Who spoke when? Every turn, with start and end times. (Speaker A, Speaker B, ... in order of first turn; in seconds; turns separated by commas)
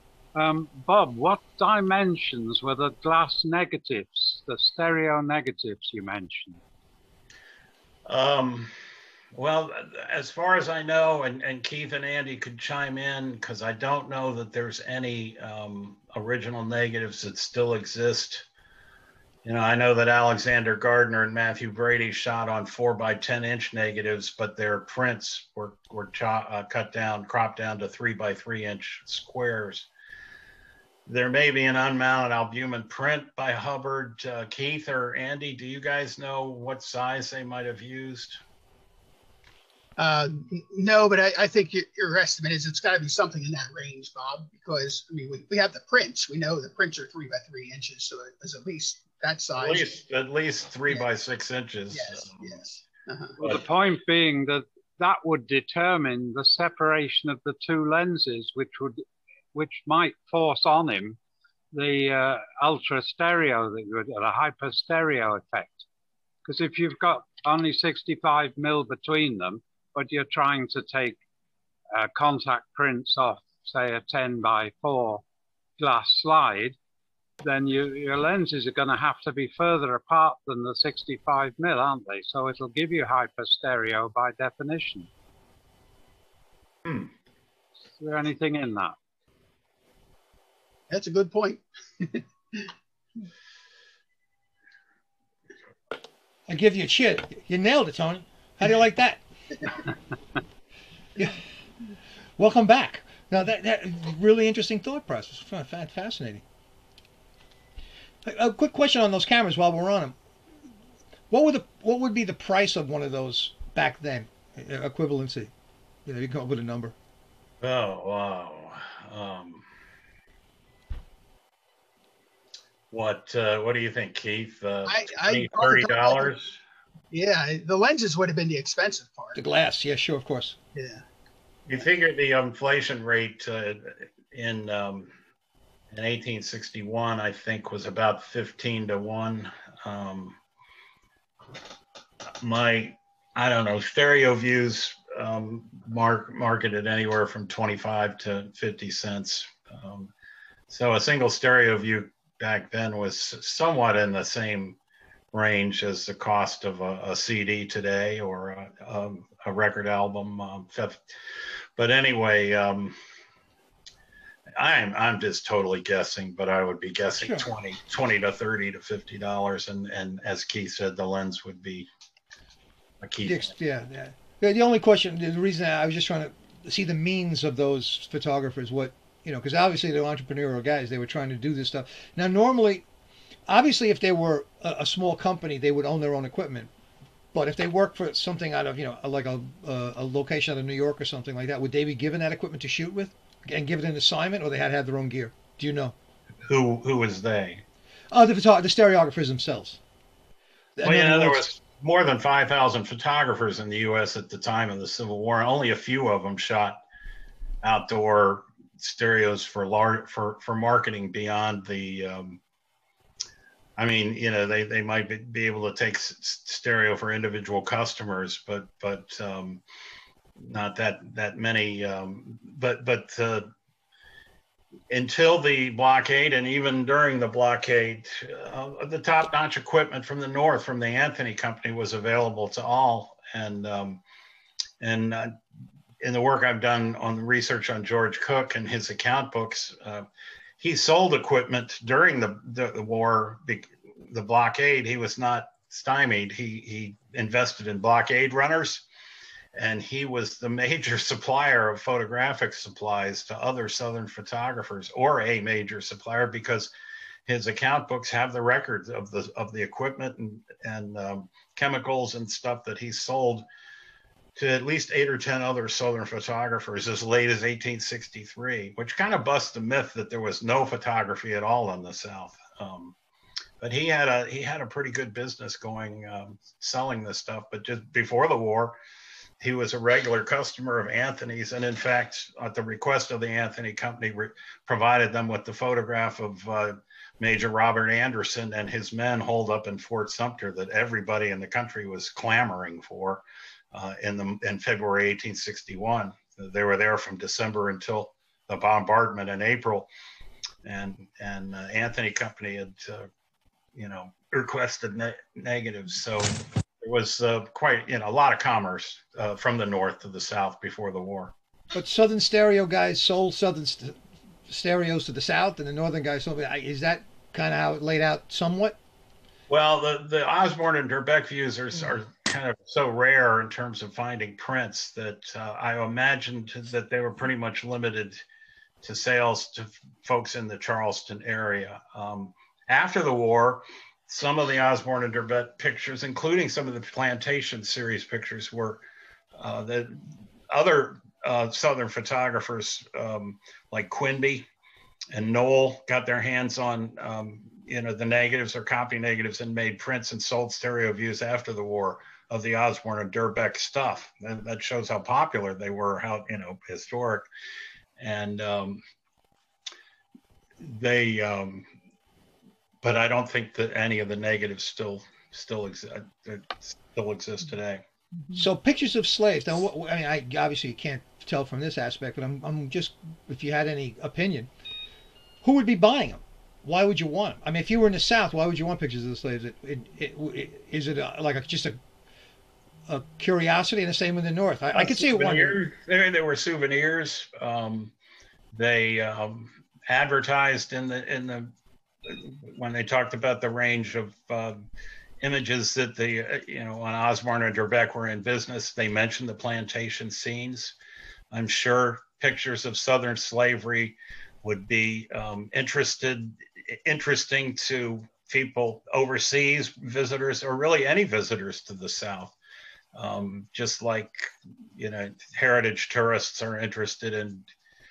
Speaker A: 0.3-6.6, Speaker B: 8.1-8.7, Speaker B: 9.3-18.5, Speaker B: 19.4-29.9, Speaker B: 31.1-38.4, Speaker C: 40.0-49.9, Speaker B: 49.5-52.6, Speaker C: 51.9-53.4, Speaker A: 53.4-61.2, Speaker A: 61.7-65.8, Speaker A: 66.5-71.2, Speaker A: 71.9-75.2, Speaker A: 75.8-76.8, Speaker A: 77.4-85.1, Speaker B: 86.8-87.1, Speaker A: 88.0-89.0, Speaker C: 90.9-92.7, Speaker D: 96.5-99.2, Speaker D: 102.4-106.4, Speaker D: 108.2-110.2, Speaker D: 111.3-115.5, Speaker D: 116.1-117.0, Speaker B: 117.6-119.7, Speaker B: 122.9-126.6, Speaker C: 124.9-126.3, Speaker C: 127.1-129.4, Speaker D: 129.3-130.6, Speaker C: 130.8-131.0, Speaker B: 131.7-135.1, Speaker B: 135.9-140.4, Speaker B: 142.4-150.1, Speaker B: 150.7-154.8, Speaker B: 155.3-161.0, Speaker B: 161.8-163.0, Speaker B: 164.6-171.9, Speaker B: 173.0-173.5, Speaker D: 173.2-182.8, Speaker D: 183.5-186.7, Speaker D: 187.3-195.9, Speaker B: 196.4-197.7, Speaker D: 198.1-199.8, Speaker D: 200.8-201.5, Speaker B: 200.8-206.8, Speaker B: 207.6-212.4, Speaker B: 213.8-219.6, Speaker B: 220.4-223.5, Speaker B: 224.9-234.0, Speaker B: 234.8-235.3, Speaker B: 236.0-240.1, Speaker B: 240.6-248.9, Speaker B: 249.5-256.7, Speaker B: 257.3-263.4, Speaker B: 264.4-272.9, Speaker B: 273.6-278.8, Speaker B: 279.4-299.9, Speaker B: 300.6-303.1, Speaker B: 303.7-311.3, Speaker D: 311.7-313.9, Speaker D: 314.5-318.8, Speaker B: 319.5-328.2, Speaker B: 328.8-338.8, Speaker B: 339.3-344.5, Speaker B: 345.1-357.3, Speaker B: 358.0-358.8, Speaker B: 360.6-361.7, Speaker B: 362.8-367.8, Speaker D: 368.3-374.5, Speaker D: 375.4-381.8, Speaker D: 382.9-385.6, Speaker B: 384.8-387.9, Speaker B: 388.5-391.5, Speaker B: 392.1-394.6, Speaker B: 395.2-400.8, Speaker B: 401.3-412.3, Speaker B: 412.9-417.5